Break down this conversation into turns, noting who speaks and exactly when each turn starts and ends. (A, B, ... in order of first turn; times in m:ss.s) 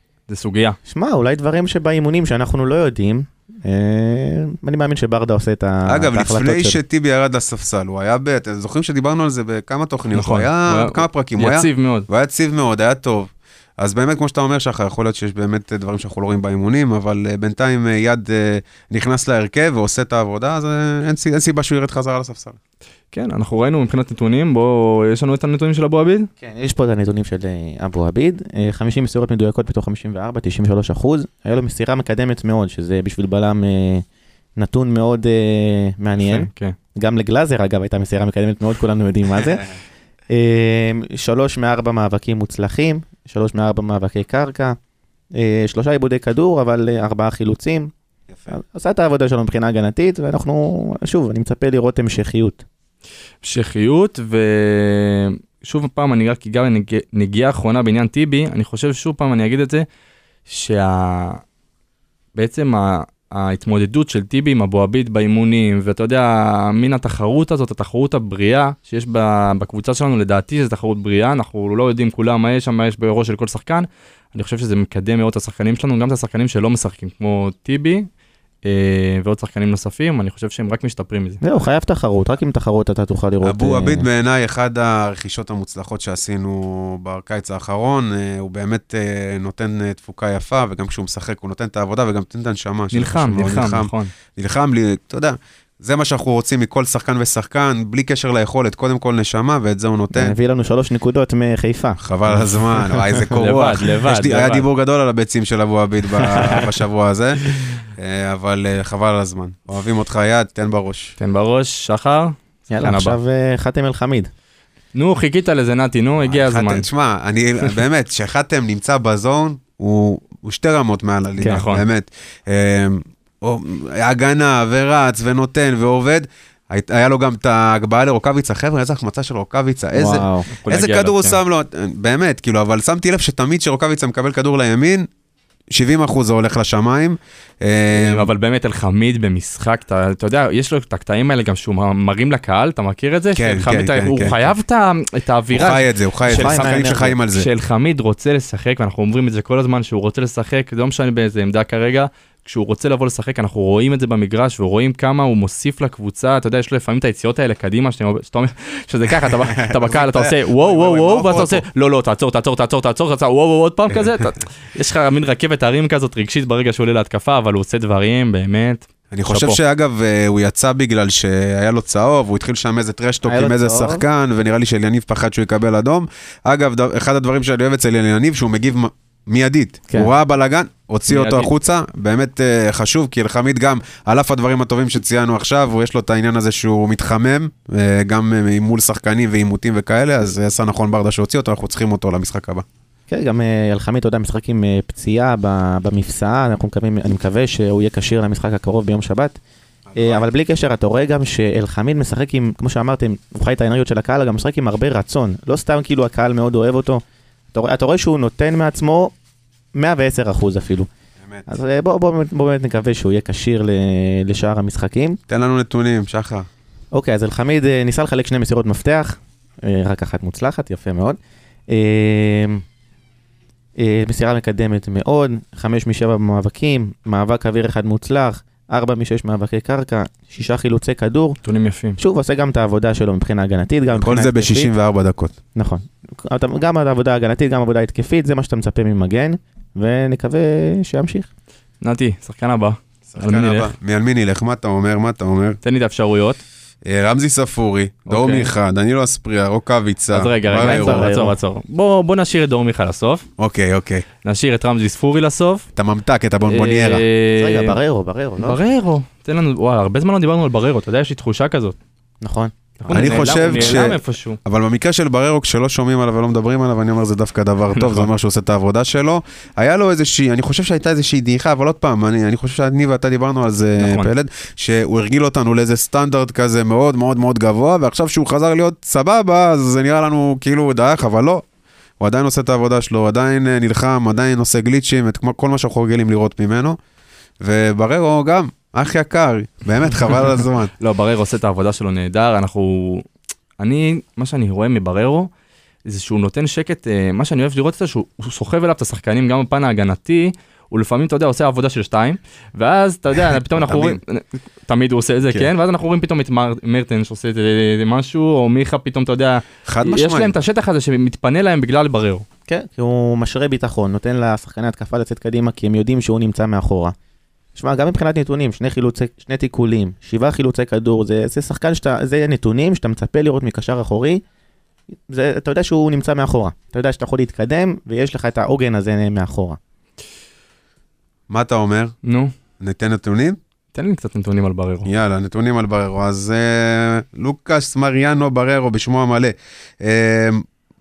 0:00.3-0:00.8 A
0:00.9-0:06.8 B
0:05.9-0:22.6 C
0:10.1-0:12.1 A
0:23.1-0:26.3 A
0:26.4-0:34.0 B
0:34.6-0:39.7 B
0:36.2-0:36.8 A
0:40.3-0:44.8 B
0:45.4-0:47.9 B
0:48.5-0:52.6 B
0:53.4-0:59.9 A
1:00.5-1:01.4 A
1:02.4-1:18.1 A
1:18.6-1:21.4 A
1:21.4-1:24.1 B
1:23.4-1:40.3 C
1:32.9-1:34.1 A
1:40.1-1:42.0 B
1:42.0-1:51.2 C
1:43.3-1:44.6 A
1:51.2-1:53.2 A
1:52.7-1:54.3 B
1:54.9-1:56.9 A
1:56.2-2:15.1 C
2:01.4-2:01.8 A
2:10.0-2:10.5 B
2:10.6-2:11.4 A
2:15.7-2:18.3 C
2:18.0-2:26.8 A
2:23.4-2:24.4 C
2:25.5-2:27.5 C
2:26.3-2:27.2 B
2:27.3-2:49.6 A
2:39.6-2:41.6 C
2:49.1-3:12.6 C
2:53.2-2:54.0 B
3:01.1-3:01.5 A
3:13.1-3:19.4 B
3:19.9-3:20.2 C
3:20.0-3:27.0 B
3:27.5-3:29.1 B
3:29.8-3:30.9 B
3:31.5-3:35.2 B
3:35.3-3:36.5 C
3:36.9-3:41.2 B
3:41.7-3:42.6 B
3:43.8-3:51.4 B
3:51.4-3:52.0 A
3:52.0-3:54.7 B
3:54.0-3:55.4 C
3:55.6-4:01.3 B
4:01.8-4:03.7 A
4:03.1-4:05.6 C
4:05.6-4:06.4 A
4:06.8-4:11.1 C
4:08.1-4:08.5 A
4:10.1-4:13.3 A
4:10.6-4:11.4 B
4:13.4-4:14.1 C
4:14.2-4:15.7 A
4:15.8-4:17.0 C
4:16.5-4:17.8 A
4:17.4-4:18.6 B
4:18.4-4:21.8 A
4:22.2-4:23.9 B
4:22.8-4:24.4 A
4:22.9-4:41.4 C
4:27.8-4:28.1 A
4:33.8-4:34.1 A
4:42.0-4:46.8 C
4:47.4-4:50.7 C
4:50.8-4:53.1 A
4:53.6-4:55.3 A
4:55.9-5:12.2 A
5:03.6-5:04.0 C
5:09.7-5:10.3 C
5:12.5-5:17.0 B
5:17.6-5:24.2 B
5:25.1-5:29.6 B
5:31.3-5:32.0 C
5:32.0-5:32.3 A
5:32.6-5:33.4 C
5:33.8-5:34.9 A
5:34.8-5:40.5 C